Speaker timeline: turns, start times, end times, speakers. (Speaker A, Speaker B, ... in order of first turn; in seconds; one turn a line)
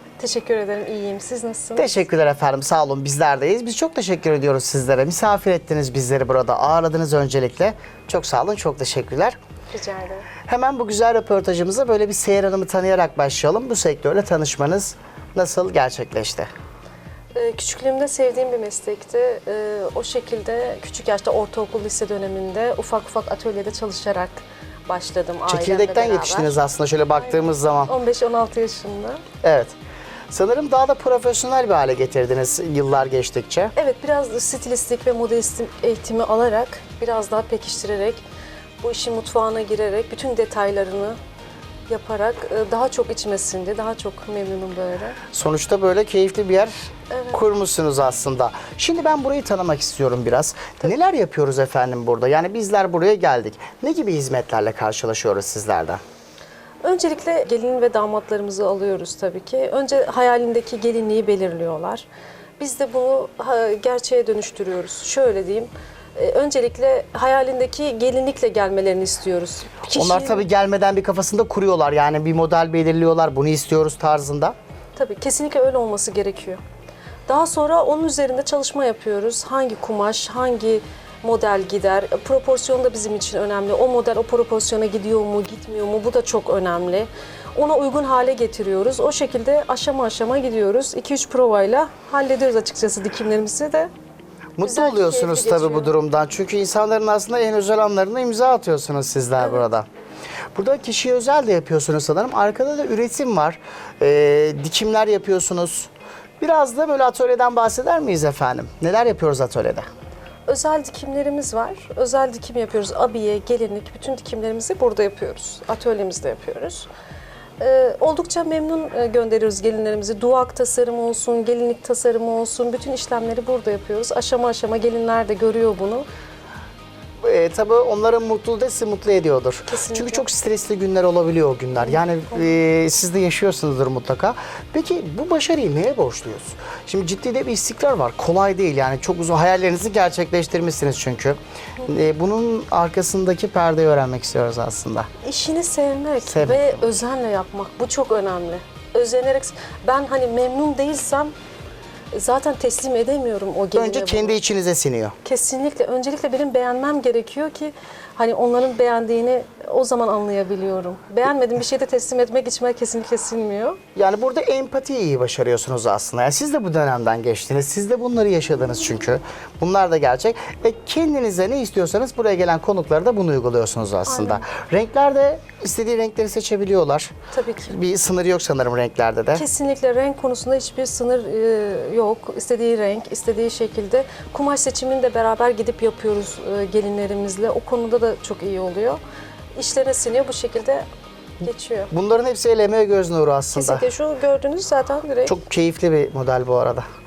Speaker A: 0.2-2.0
Speaker B: 1.8-9.4
Speaker A: 9.7-10.3
Speaker B: 10.4-16.5
Speaker A: 17.3-26.6
Speaker B: 25.5-27.9
Speaker A: 27.1-29.2
Speaker B: 29.4-29.8
Speaker B: 30.3-33.7
Speaker A: 33.8-38.2
Speaker A: 38.8-41.2
Speaker A: 41.9-45.2
Speaker B: 45.3-56.0
Speaker A: 47.1-47.4
Speaker A: 56.8-62.1
Speaker A: 62.6-70.5
Speaker B: 69.9-74.5
Speaker A: 75.0-76.6
Speaker A: 77.3-93.9
Speaker B: 94.6-99.8
Speaker A: 94.6-95.9
Speaker B: 100.5-109.9
Speaker A: 110.5-116.9
Speaker A: 117.6-126.0
Speaker B: 127.2-145.1
Speaker A: 129.7-130.3
Speaker A: 145.2-151.3
Speaker B: 146.3-146.9
Speaker A: 152.1-154.4
Speaker B: 153.7-155.1
Speaker A: 155.2-163.8
Speaker B: 163.9-177.1
Speaker A: 174.1-174.4
Speaker A: 177.3-177.7
Speaker B: 177.7-179.4
Speaker A: 179.3-189.0
Speaker A: 189.6-190.8
Speaker A: 191.4-191.9
Speaker B: 191.9-193.8
Speaker A: 193.6-195.4
Speaker B: 195.3-196.8